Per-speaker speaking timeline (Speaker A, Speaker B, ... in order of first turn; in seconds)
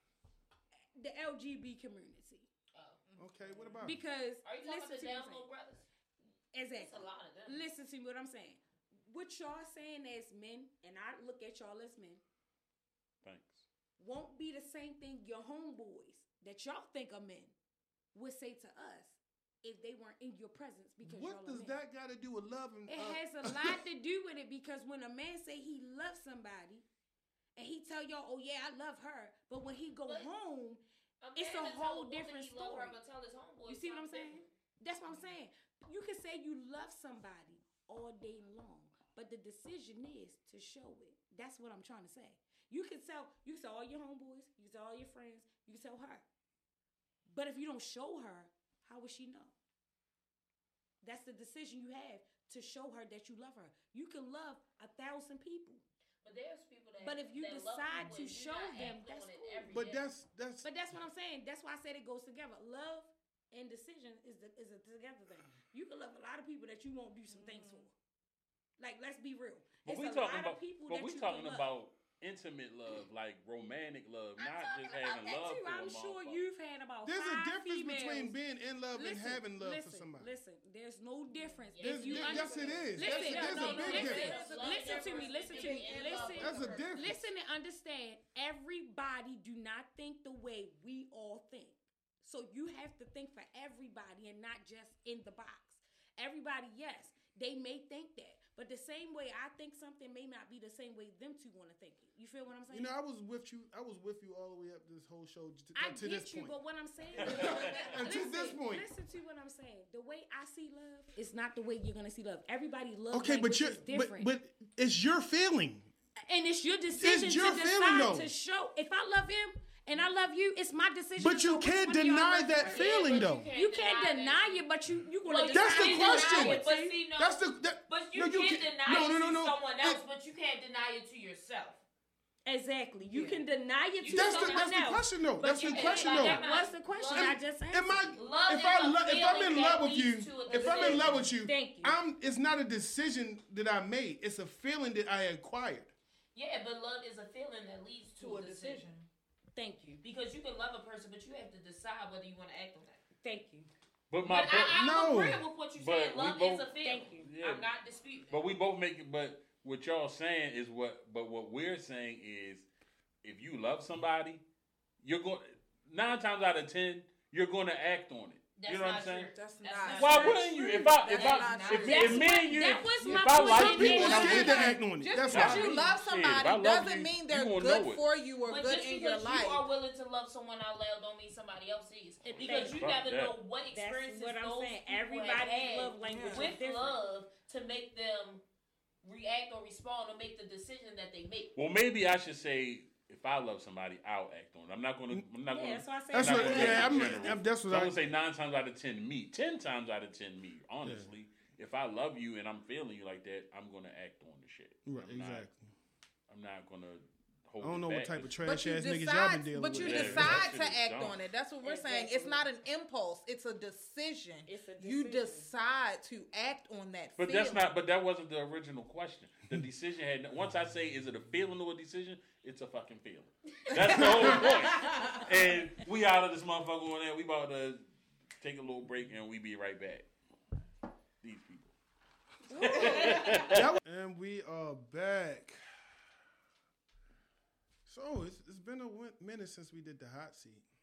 Speaker A: 1.0-2.5, 3.8-5.5, 6.5-12.2, 14.0-17.5, 18.1-21.8, 22.9-26.8, 27.6-30.8, 31.3-33.0, 33.7-46.2, 47.3-49.5, 51.0-55.8, 57.0-59.8, 60.6-67.9, 68.8-71.7, 74.4-78.4, 78.9-102.9, 105.7-114.3, 116.3-127.0, 132.4-138.2, 140.5-142.0, 149.5-150.0, 153.2-153.7, 156.8-157.3, 172.0-174.5, 182.2-182.8, 183.7-187.0, 195.5-197.0, 211.6-212.5, 214.5-215.5, 232.5-233.4
Speaker B: 2.7-3.0, 4.4-5.8, 6.7-7.6, 30.0-30.3, 31.2-34.5, 56.2-60.1, 81.3-86.7, 122.5-124.6, 125.2-131.8, 133.1-133.4, 134.0-137.4, 138.1-141.3, 146.3-148.9, 150.0-153.0, 154.2-158.4, 168.6-174.6, 178.4-188.4, 189.0-191.5
Speaker C: 3.1-3.9, 67.3-67.9, 83.5-86.9, 148.2-149.1, 169.3-179.7, 186.0-186.5, 196.4-197.1, 208.4-217.7, 223.7-225.2, 232.9-233.4
Speaker D: 3.2-4.0, 21.0-23.8, 59.7-60.6, 77.0-80.3, 81.8-84.4, 86.4-87.2, 102.7-106.6, 107.2-108.9, 113.1-115.9, 117.0-118.3, 121.2-123.5, 125.5-126.6, 127.2-130.0, 134.1-136.4, 137.1-145.9, 154.7-155.4, 173.6-175.7, 196.1-198.0, 200.8-201.1, 204.8-205.7, 207.6-210.5, 233.5-235.6, 237.8-240.7
Speaker E: 13.2-13.6, 69.8-76.4, 154.1-155.1, 155.8-157.7, 158.3-162.7, 163.2-164.4, 165.0-169.3, 169.9-174.6, 175.3-178.0, 182.4-183.4, 191.6-205.5, 206.3-208.4, 209.8-211.2, 217.2-227.8, 228.4-230.1, 231.2-231.7, 232.5-233.7